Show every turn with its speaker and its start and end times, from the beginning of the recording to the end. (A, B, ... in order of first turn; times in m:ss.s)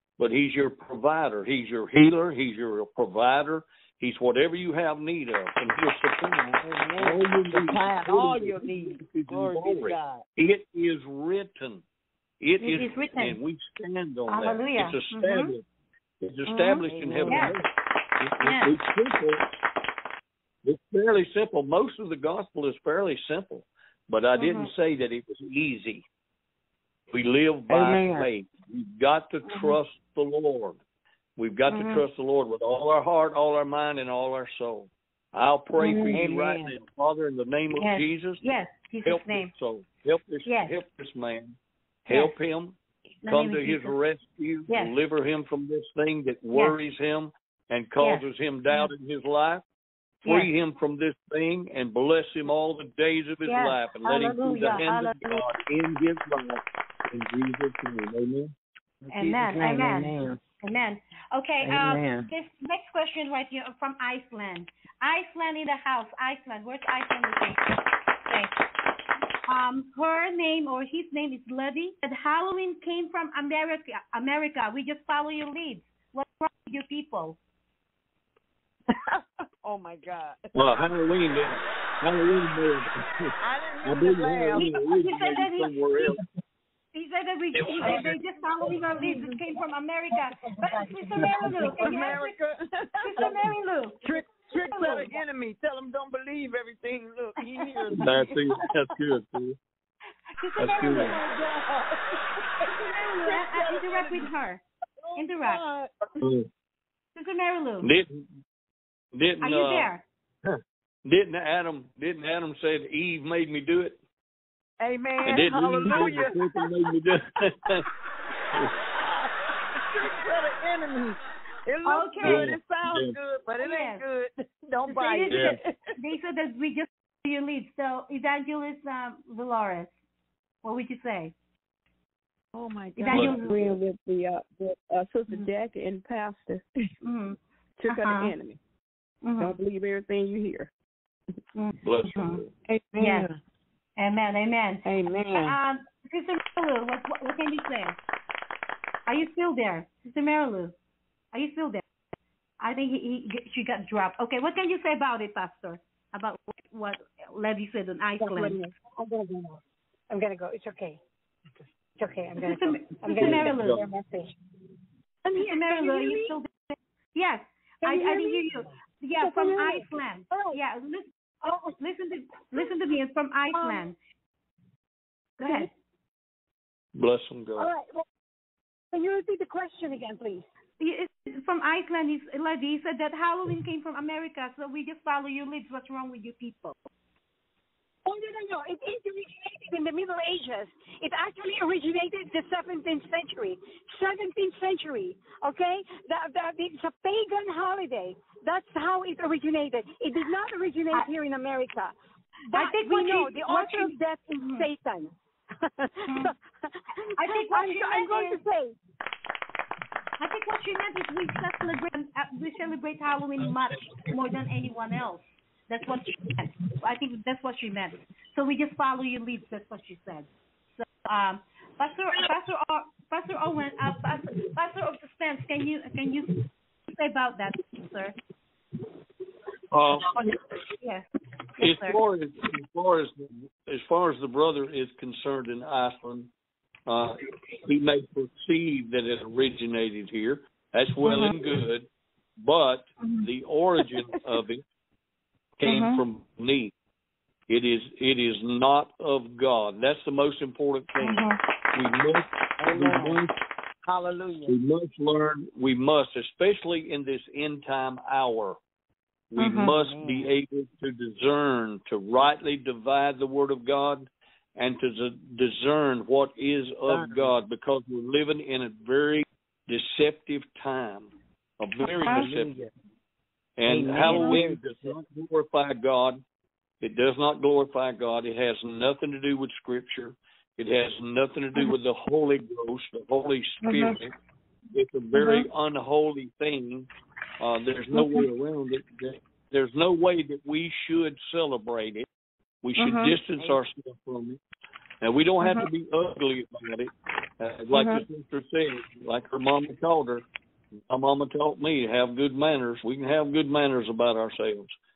0:00.2-0:11.8 A
0:06.6-0:10.2 B
0:12.4-0:15.6 A
0:12.6-0:13.4 C
0:14.3-0:15.5 C
0:16.2-0:19.5 A
0:16.5-0:17.6 C
0:16.8-0:17.6 B
0:18.4-0:18.8 C
0:20.6-0:26.0 A
0:24.4-0:24.7 C
0:27.1-0:30.8 A
0:27.7-0:28.3 B
0:29.4-0:29.8 C
0:31.4-0:38.4 A
0:31.7-0:32.0 C
0:35.8-0:36.1 C
0:36.1-0:36.8 B
0:37.7-0:39.5 C
0:39.0-0:49.6 A
0:40.4-0:40.8 C
0:42.1-0:42.4 C
0:43.2-0:44.0 C
0:44.7-0:44.9 C
0:48.0-0:48.9 C
0:50.2-0:50.5 C
0:50.2-0:58.5 A
0:53.5-0:55.5 C
0:59.0-1:00.4 B
0:59.1-1:07.8 C
1:01.6-1:02.3 B
1:09.5-1:17.4 C
1:18.9-1:20.5 B
1:20.5-1:26.2 A
1:23.4-1:24.7 B
1:24.6-1:26.2 C
1:26.9-1:32.3 C
1:27.5-1:28.2 A
1:29.0-1:29.3 D
1:30.4-1:32.2 D
1:31.8-1:38.2 B
1:33.0-1:35.1 C
1:37.9-1:38.2 C
1:38.0-1:39.6 A
1:40.4-1:41.7 C
1:40.6-1:41.2 A
1:40.8-1:44.3 B
1:42.9-1:44.6 C
1:45.0-1:46.1 B
1:45.2-1:45.6 C
1:46.2-1:46.5 A
1:47.2-1:47.9 C
1:47.8-1:48.3 A
1:49.1-1:49.9 A
1:49.4-1:50.0 C
1:50.4-1:54.0 A
1:54.8-1:56.5 B
1:55.2-1:57.9 A
1:55.3-1:56.1 C
1:58.9-2:05.8 B
2:01.8-2:02.6 C
2:02.2-2:03.2 A
2:03.6-2:04.0 C
2:04.9-2:09.9 C
2:05.3-2:05.6 A
2:10.6-2:11.3 C
2:12.5-2:13.8 B
2:13.0-2:13.5 C
2:13.1-2:13.4 A
2:13.2-2:16.9 E
2:17.0-2:18.3 C
2:17.8-2:18.6 E
2:19.2-2:19.6 C
2:19.4-2:20.7 E
2:21.6-2:22.4 C
2:21.8-2:22.5 A
2:22.9-2:23.3 B
2:23.0-2:23.3 C
2:24.0-2:28.0 C
2:24.9-2:25.6 B
2:29.1-2:30.8 C
2:31.3-2:31.8 C
2:32.6-2:38.6 C
2:38.2-2:41.0 D
2:42.0-2:44.4 D
2:42.4-2:43.8 C
2:43.1-2:43.8 A
2:45.3-2:46.4 D
2:45.3-2:51.1 C
2:47.8-2:48.5 D
2:49.2-2:50.6 D
2:51.4-2:51.8 D
2:51.8-2:54.0 C
2:53.5-2:53.9 D
2:55.4-2:55.7 D
2:55.4-2:55.7 C
2:57.0-2:57.7 A
2:57.6-2:58.0 D
2:58.9-3:00.4 D
3:00.8-3:06.8 C
3:08.0-3:21.9 D
3:22.5-3:28.8 D
3:22.5-3:24.7 C
3:26.1-3:26.3 C
3:27.2-3:28.4 C
3:30.2-3:48.2 C
3:33.4-3:34.4 A
3:49.7-3:50.5 A
3:50.8-3:51.1 C
3:51.6-3:52.0 C
3:51.6-3:56.3 A
3:56.9-4:01.9 A
4:01.0-4:01.3 C
4:02.4-4:04.6 A
4:05.6-4:06.7 A
4:05.6-4:06.0 C
4:07.5-4:13.3 A
4:11.0-4:11.4 C
4:12.6-4:13.2 B
4:13.8-4:14.5 B
4:14.4-4:18.6 A
4:19.3-4:32.6 A
4:19.4-4:19.7 C
4:19.5-4:20.3 B
4:26.9-4:27.4 B
4:32.0-4:32.7 B
4:33.6-4:36.2 A
4:33.7-4:35.0 B
4:34.1-4:34.4 C
4:36.8-4:44.1 A
4:43.6-4:44.0 C
4:44.7-4:46.9 A
4:45.2-4:45.5 C
4:47.4-4:52.1 A
4:47.9-4:48.2 C
4:52.6-4:54.4 A
4:52.8-4:53.2 C
4:55.0-5:00.2 A
4:57.7-4:58.0 C
5:00.9-5:04.7 A